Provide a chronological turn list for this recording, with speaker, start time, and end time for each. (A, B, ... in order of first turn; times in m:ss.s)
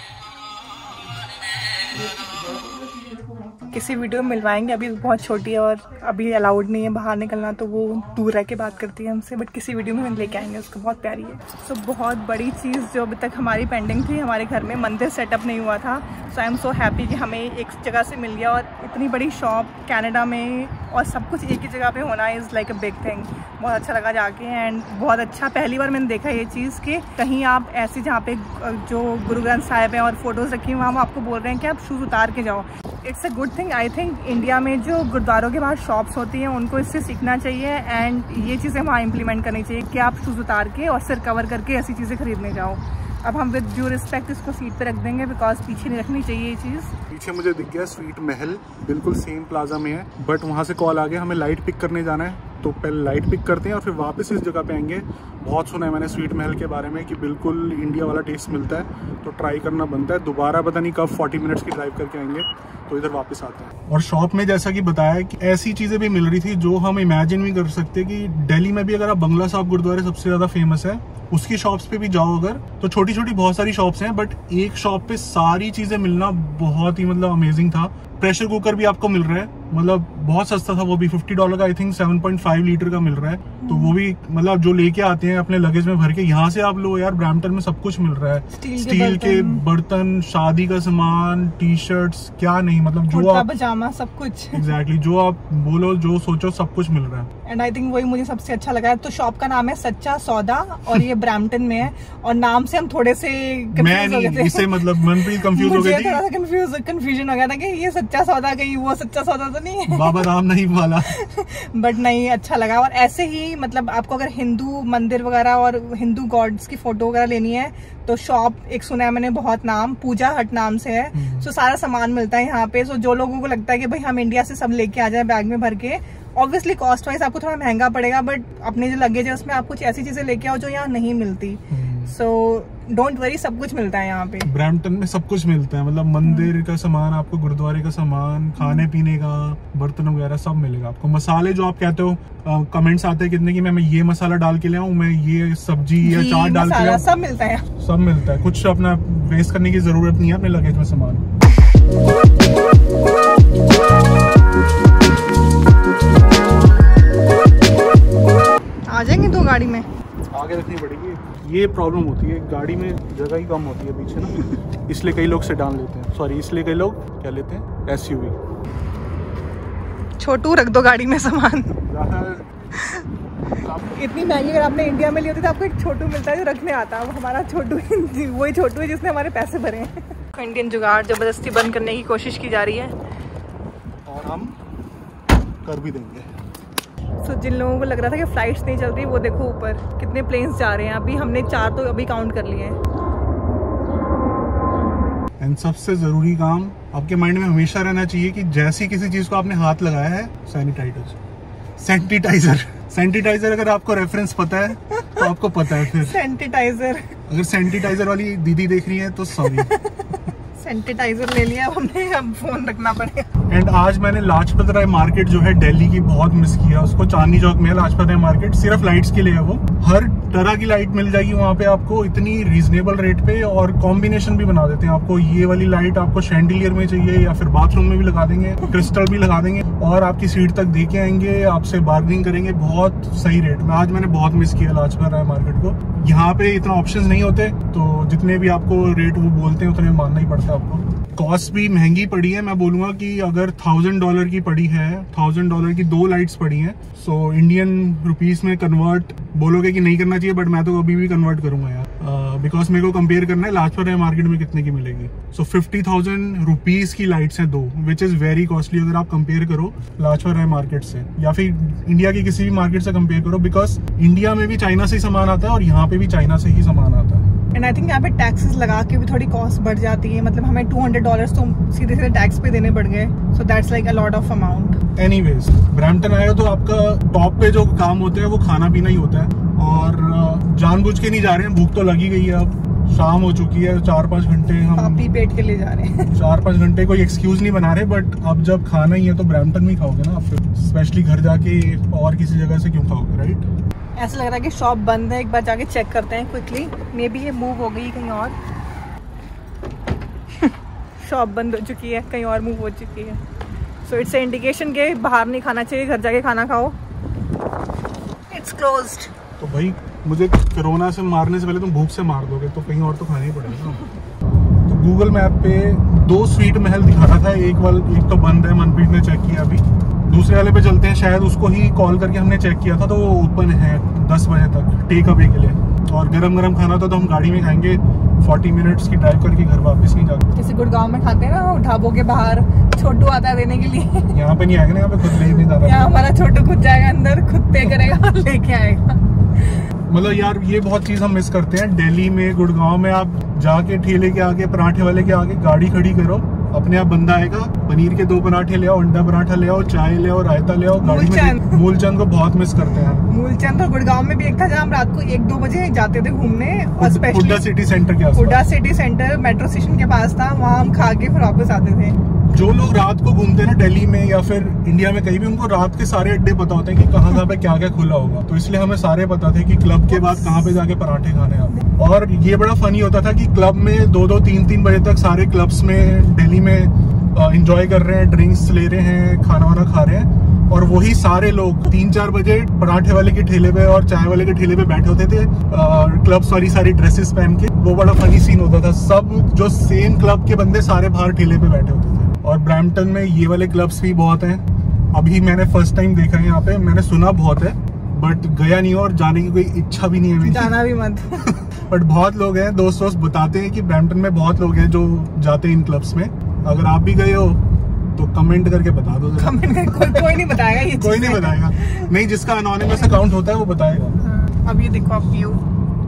0:03.7-0:46.9 A
0:47.1-1:33.5 B
1:23.6-1:24.0 A
1:28.6-1:29.6 A
1:33.1-1:34.7 A
1:34.5-1:37.3 B
1:37.4-1:50.3 A
1:43.7-1:46.2 B
1:49.9-1:51.2 B
1:51.0-2:14.5 A
2:01.1-2:01.5 B
2:11.7-2:12.1 B
2:14.4-2:27.0 B
2:16.2-2:16.5 A
2:18.6-2:18.9 A
2:26.0-2:27.7 A
2:27.8-2:31.2 B
2:38.9-2:39.9 A
2:40.3-2:48.4 B
2:50.2-2:51.8 A
2:51.8-2:52.5 B
2:52.8-2:53.1 A
2:53.6-2:53.9 B
2:53.9-3:03.0 A
3:04.0-3:04.5 B
3:05.6-3:06.3 B
3:07.2-3:12.8 A
3:15.4-3:21.2 B
3:21.8-3:26.2 B
3:24.9-3:27.2 A
3:27.3-3:29.8 B
3:29.4-3:33.3 A
3:33.5-4:27.3 B
4:27.5-4:34.8 A
4:35.0-4:45.1 B
4:44.7-4:46.1 A
4:46.1-4:53.5 B
4:54.0-4:58.4 A
5:00.3-5:03.2 A
5:03.8-5:06.8 A
5:08.3-5:09.1 A
5:09.4-5:13.9 B
5:14.7-5:30.3 B
5:30.3-5:34.1 A
5:34.1-5:36.0 B
5:35.0-5:39.7 A
5:39.9-5:53.1 B
5:50.8-5:51.7 A
5:53.1-5:57.4 A
5:56.8-5:58.5 B
5:58.1-6:02.0 A
6:02.3-6:40.6 B
6:09.9-6:10.5 A
6:40.2-6:41.3 A
6:41.1-6:47.4 B
6:47.9-6:54.0 B
6:49.2-6:51.9 A
6:52.8-6:53.1 A
6:54.0-6:55.4 A